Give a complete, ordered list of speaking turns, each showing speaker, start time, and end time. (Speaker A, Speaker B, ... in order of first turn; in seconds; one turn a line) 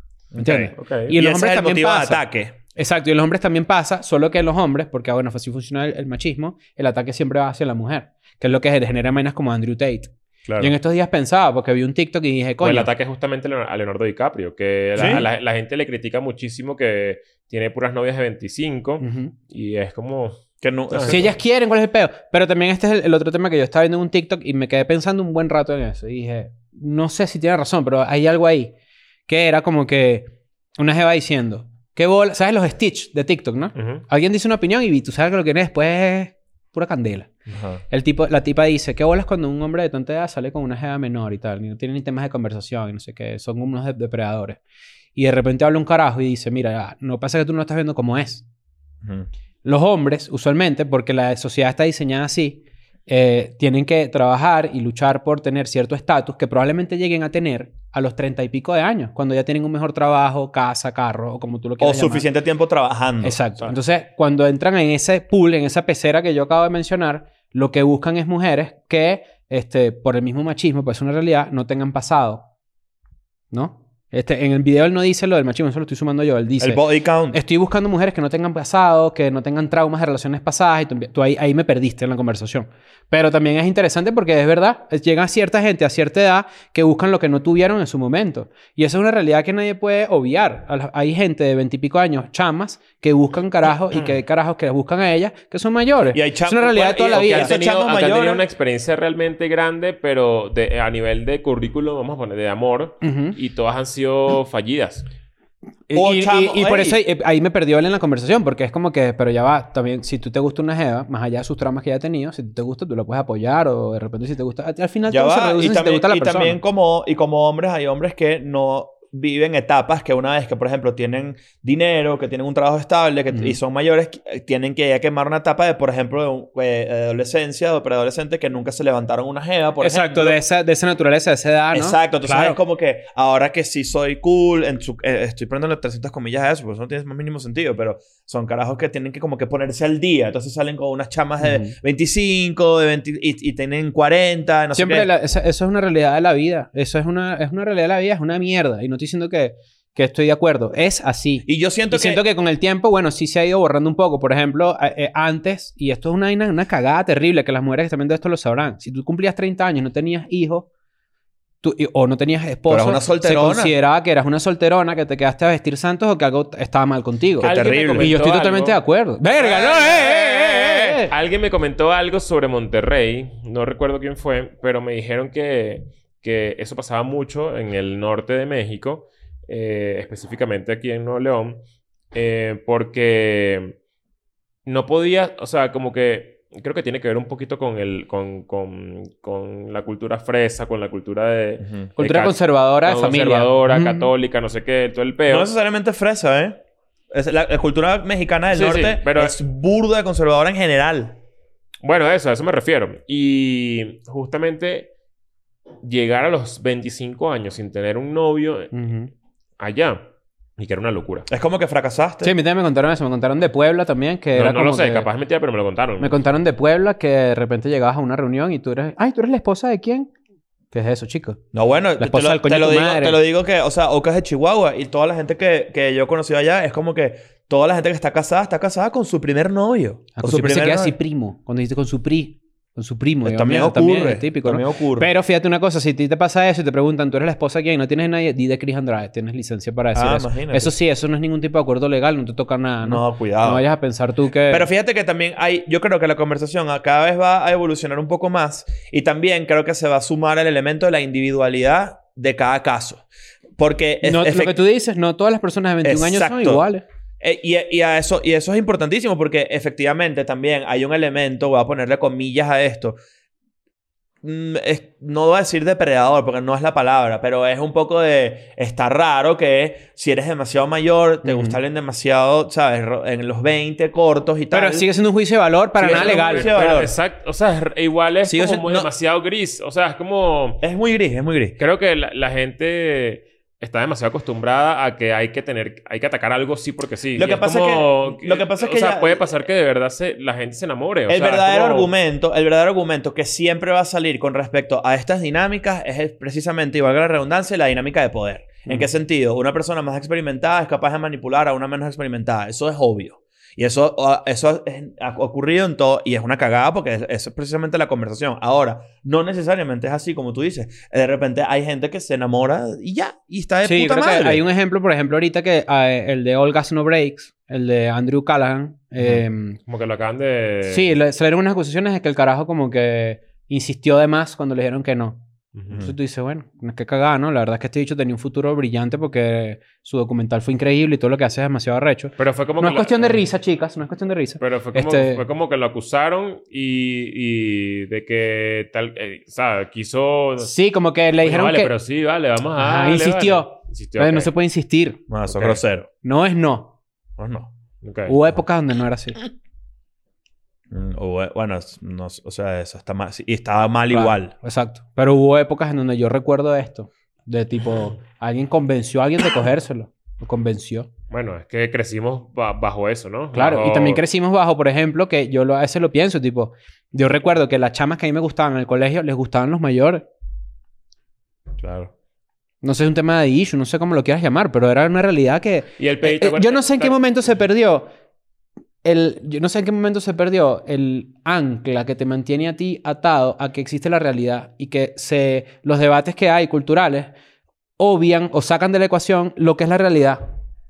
Speaker A: 0.3-2.5
Speaker B: 0.4-12.9
Speaker C: 0.8-1.1
Speaker A: 10.4-10.7
Speaker C: 12.6-21.3
Speaker A: 14.9-15.2
Speaker B: 19.0-19.3
Speaker A: 20.6-21.4
Speaker B: 21.1-28.7
Speaker B: 29.3-37.3
Speaker C: 33.7-34.0
Speaker A: 37.5-37.8
Speaker B: 37.9-44.6
Speaker B: 45.1-48.4
Speaker B: 49.6-62.3
Speaker A: 61.8-63.4
Speaker B: 63.2-72.4
Speaker B: 73.5-97.6
Speaker A: 76.6-77.4
Speaker A: 96.1-98.4
Speaker C: 97.1-105.1
Speaker B: 103.0-103.4
Speaker B: 105.9-116.6
Speaker A: 105.9-107.0
Speaker A: 115.1-130.4
Speaker B: 129.8-132.6
Speaker A: 131.7-145.1
Speaker B: 141.4-141.7
Speaker B: 144.7-160.7
Speaker A: 151.4-152.2
Speaker B: 161.6-171.1
Speaker A: 162.7-163.7
Speaker A: 167.4-168.1
Speaker C: 167.4-168.8
Speaker A: 169.4-171.0
Speaker C: 171.1-183.8
Speaker C: 184.7-195.5
Speaker B: 192.0-194.1
Speaker A: 195.3-196.6
Speaker A: 197.1-201.2
Speaker C: 198.5-199.4
Speaker C: 201.8-204.9
Speaker C: 205.8-208.7
Speaker B: 208.7-209.1
Speaker C: 209.6-210.1
Speaker C: 210.6-211.3
Speaker A: 211.3-212.3
Speaker B: 212.2-215.1
Speaker C: 214.4-216.2
Speaker B: 216.0-220.1
Speaker B: 220.7-221.4
Speaker A: 221.5-230.9
Speaker B: 222.0-223.2
Speaker B: 230.2-244.7
Speaker A: 233.2-235.1
Speaker A: 239.9-240.7
Speaker A: 242.8-243.6
Speaker A: 244.5-253.1
Speaker A: 253.6-254.6
Speaker B: 254.0-256.8
Speaker A: 255.8-256.6
Speaker A: 257.2-263.0
Speaker A: 264.2-274.9
Speaker B: 271.2-271.6
Speaker B: 274.5-276.6
Speaker A: 275.8-276.9
Speaker C: 275.8-280.6
Speaker A: 278.2-278.9
Speaker A: 280.6-281.6
Speaker C: 281.6-291.9
Speaker A: 287.1-289.3
Speaker A: 291.1-314.4
Speaker B: 313.6-319.6
Speaker C: 319.7-320.9
Speaker B: 320.7-335.2
Speaker C: 325.6-325.8
Speaker C: 332.2-333.2
Speaker C: 334.4-340.5
Speaker B: 340.4-341.7
Speaker C: 341.2-344.3
Speaker B: 342.6-346.7
Speaker A: 345.1-345.9
Speaker A: 347.2-347.5
Speaker C: 347.8-348.1
Speaker B: 348.1-349.2
Speaker A: 350.7-354.3
Speaker B: 353.9-360.9
Speaker C: 361.1-364.0
Speaker B: 363.3-370.1
Speaker A: 371.6-371.9
Speaker B: 372.6-377.9
Speaker C: 375.8-377.3
Speaker B: 378.8-387.1
Speaker B: 387.8-390.2